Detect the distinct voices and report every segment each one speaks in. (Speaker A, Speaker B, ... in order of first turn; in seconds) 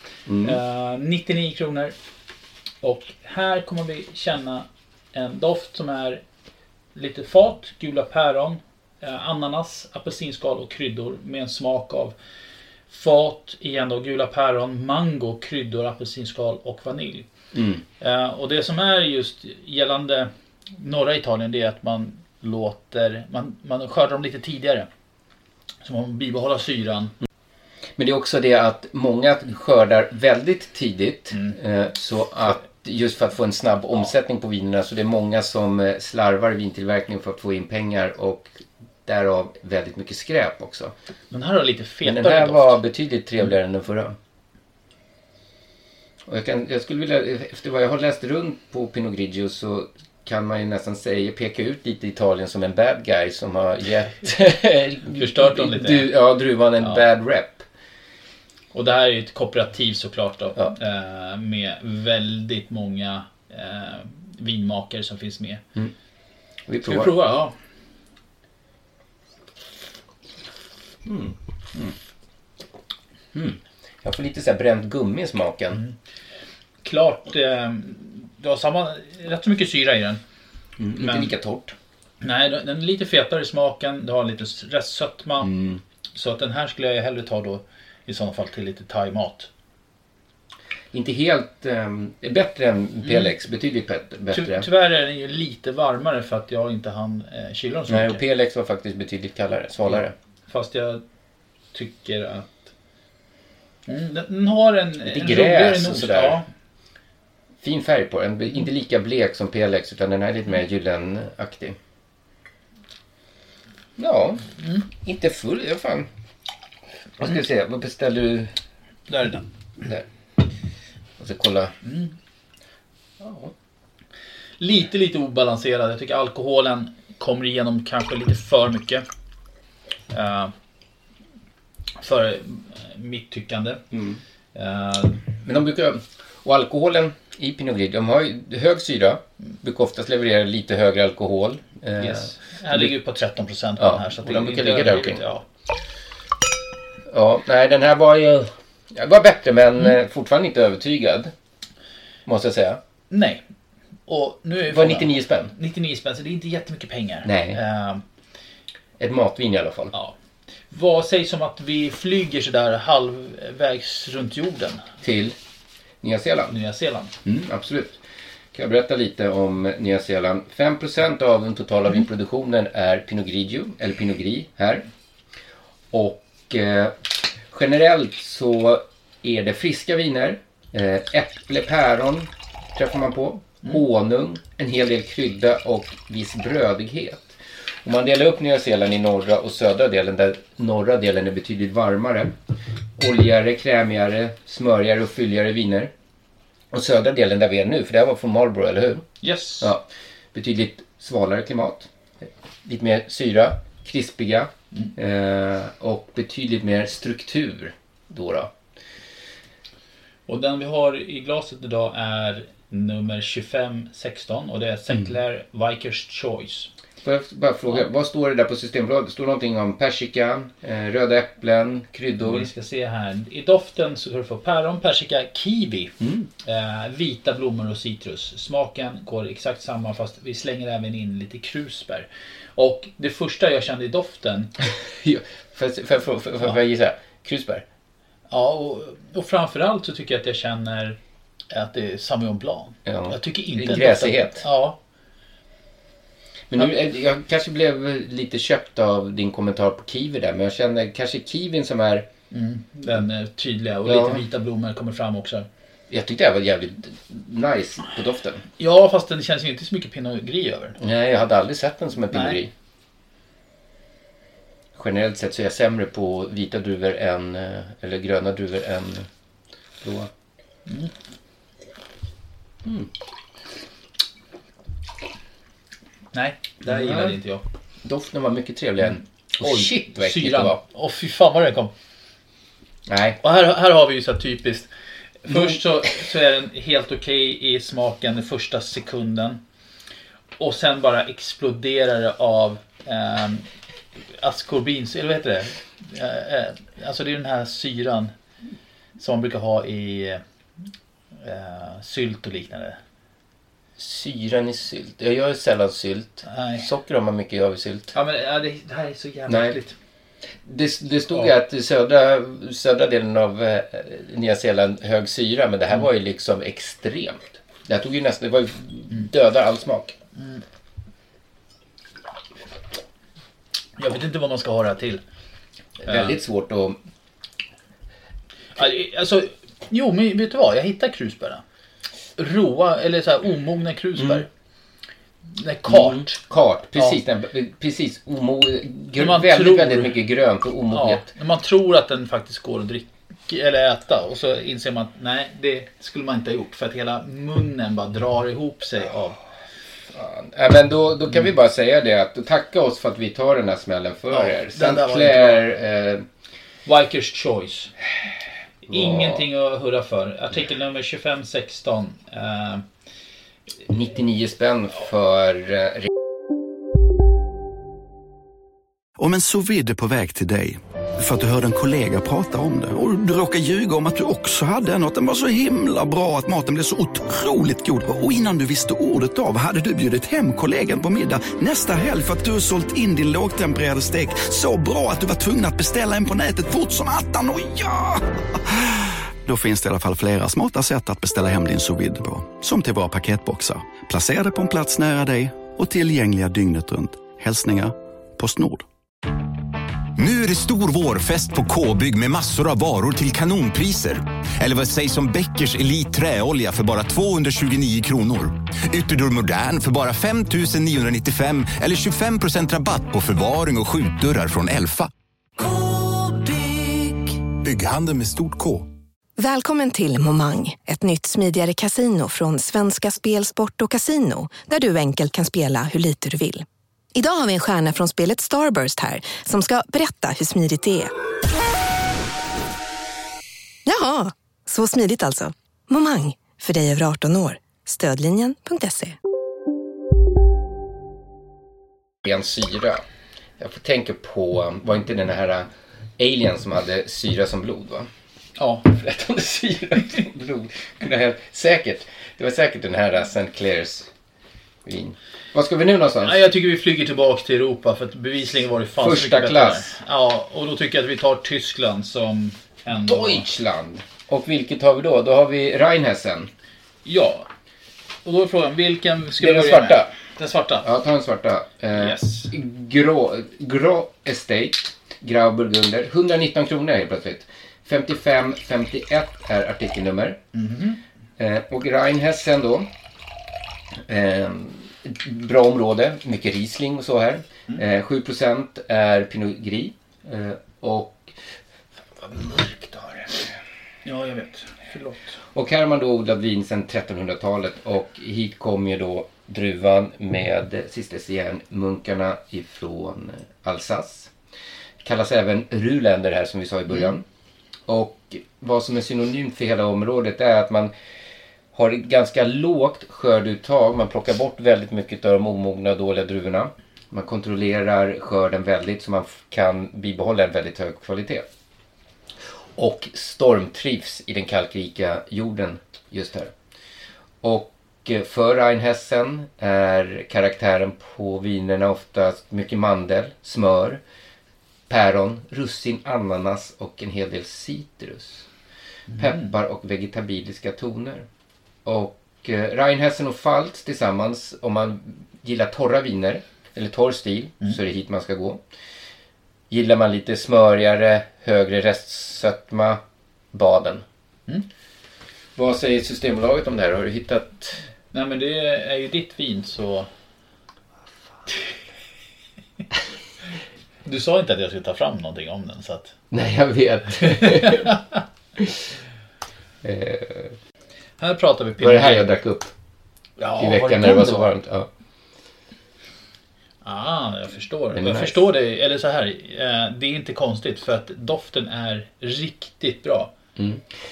Speaker A: 0.3-0.6, 17.5-17.8, 28.0-40.9, 42.0-44.1, 46.2-57.6, 66.7-67.2, 71.0-71.9, 73.3-75.8, 80.8-81.8, 85.4-85.8, 90.9-94.7, 97.9-100.1, 105.0-106.4, 107.6-111.8, 114.0-116.1, 117.2-118.5, 121.2-121.7, 123.2-123.5, 133.9-134.2, 135.4-142.9, 143.8-145.2, 147.1-151.3, 152.2-152.8, 154.7-155.5, 157.2-157.6, 159.0-159.9, 165.0-165.3, 166.0-166.5, 167.2-168.0, 168.5-174.8, 175.9-192.3, 193.0-195.9, 196.7-199.1, 199.6-208.5, 217.0-222.5, 226.0-226.3, 234.7-237.6, 242.8-244.4, 246.5-252.1, 253.8-254.2, 255.9-258.4, 260.8-262.5, 264.8-269.1, 269.8-270.1, 272.6-272.9, 276.6-277.2, 277.8-280.6, 282.9-283.2, 285.3-285.6, 303.8-307.9, 309.3-309.6, 310.4-319.9, 325.8-326.8, 334.0-334.2, 335.7-341.1, 349.9-356.1, 358.7-359.2, 363.6-365.9, 442.0-442.8, 443.4-447.9, 448.6-453.9, 454.6-456.2, 458.8-459.8, 462.7-466.3, 469.2-469.9, 470.6-480.2, 481.2-482.7, 483.9-491.1, 492.0-493.3, 495.3-504.1, 504.8-507.0, 507.7-510.7, 511.5-521.3, 522.5-526.3, 527.2-533.8, 534.7-538.3, 538.9-541.0, 541.6-548.4, 549.5-552.8, 553.3-553.8, 555.4-557.6, 566.1-567.8, 569.6-570.4, 571.6-572.5, 573.4-574.7, 577.7-578.3, 583.4-583.8
Speaker B: 0.4-1.9, 2.8-6.2, 6.9-12.1, 12.9-17.3, 18.0-24.9, 25.8-27.1, 41.3-42.8, 55.1-56.1, 58.7-65.6, 66.8-67.5, 76.8-80.2, 81.0-81.3, 82.2-85.5, 86.1-89.5, 94.3-98.2, 99.9-101.0, 101.7-102.7, 103.9-106.5, 119.1-119.4, 121.8-122.1, 124.6-129.0, 130.1-130.5, 132.0-133.8, 134.5-135.2, 142.0-145.4, 153.1-153.4, 154.1-158.0, 160.7-164.9, 166.5-167.1, 199.2-199.7, 210.3-216.7, 222.2-234.5, 238.3-241.0, 241.5-244.8, 252.3-255.5, 258.6-260.8, 262.1-262.4, 270.7-270.9, 276.1-277.4, 279.4-281.7, 283.2-284.7, 285.2-289.4, 290.4-293.5, 294.2-298.1, 299.0-300.2, 301.2-302.8, 306.2-306.6, 307.9-309.7, 320.1-320.4, 323.8-325.0, 325.9-326.1, 328.6-331.4, 332.2-334.3, 335.3-336.2, 338.9-340.0, 340.7-349.2, 354.1-355.4, 356.6-357.7, 358.7-362.6, 448.4-448.6, 456.0-463.2, 466.8-467.3, 468.0-470.7, 471.7-472.3, 480.3-480.8, 493.8-495.2, 538.9-539.3, 557.9-559.9, 563.9-565.9, 567.2-567.8, 571.0-572.1, 573.2-574.3, 576.6-583.1
Speaker C: 369.0-388.1, 389.2-398.6
Speaker D: 399.9-414.9, 415.9-416.2, 416.9-418.6
Speaker E: 419.2-430.9, 433.6-438.9